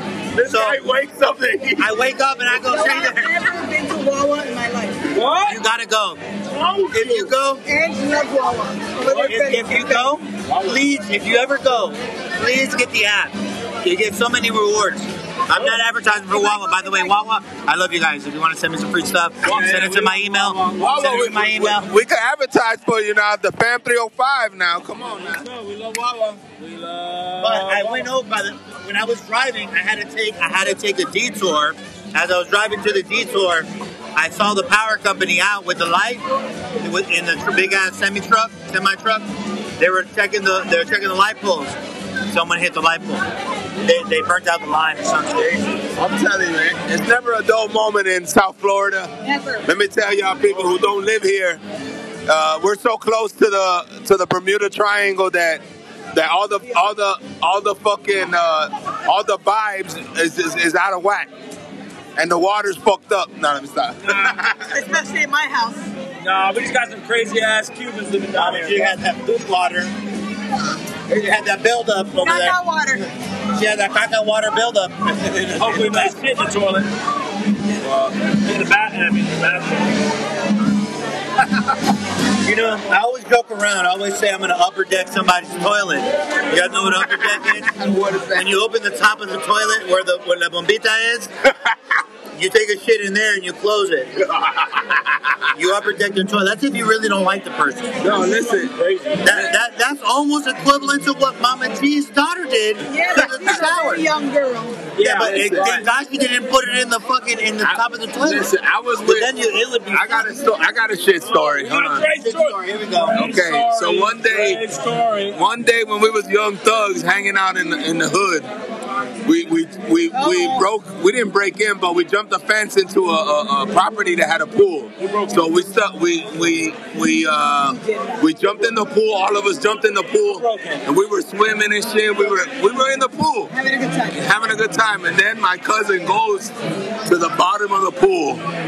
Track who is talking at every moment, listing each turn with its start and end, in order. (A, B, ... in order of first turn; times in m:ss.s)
0:00.3-0:02.0 A
0:00.4-0:00.8 B
0:01.8-0:03.4 B
0:02.6-0:05.0 C
0:05.1-0:05.6 D
0:05.5-0:06.2 B
0:06.5-0:07.3 D
0:06.9-0:07.6 B
0:07.7-0:10.1 C
0:09.0-0:09.4 D
0:09.3-0:21.9 B
0:10.5-0:10.8 D
0:15.5-0:15.8 D
0:16.3-0:17.1 C
0:19.4-0:21.3 D
0:20.8-0:25.5 A
0:25.2-0:28.1 D
0:27.4-0:36.2 B
0:36.8-0:41.8 B
0:42.3-0:43.2 B
0:43.8-0:45.6 B
0:46.0-0:49.1 A
0:49.2-0:49.6 C
0:49.6-0:51.6 A
0:52.3-0:55.6 A
0:56.1-1:01.3 A
1:02.2-1:04.8 A
1:04.0-1:04.4 D
1:04.7-1:05.8 C
1:06.2-1:09.0 D
1:08.4-1:10.0 B
1:11.1-1:16.2 B
1:12.2-1:13.1 C
1:15.6-1:16.9 D
1:17.8-1:18.2 A
1:18.2-1:20.0 D
1:22.4-1:27.7 B
1:27.0-1:28.6 A
1:28.3-1:31.3 B
1:32.4-1:34.1 B
1:34.3-1:35.1 A
1:35.6-1:38.0 B
1:38.0-1:38.8 A
1:38.1-1:39.3 D
1:39.2-1:44.0 B
1:42.8-1:44.9 C
1:44.9-1:45.9 D
1:45.0-1:50.5 B
1:45.1-1:45.8 A
1:47.6-1:49.3 A
1:49.9-1:52.1 A
1:51.2-1:55.4 D
1:52.1-1:53.2 B
1:53.1-1:54.6 A
1:55.3-1:58.5 A
1:59.2-2:13.5 A
2:00.1-2:00.7 C
2:05.0-2:05.4 D
2:07.6-2:08.2 C
2:10.3-2:10.8 D
2:13.5-2:14.2 C
2:14.1-2:18.4 A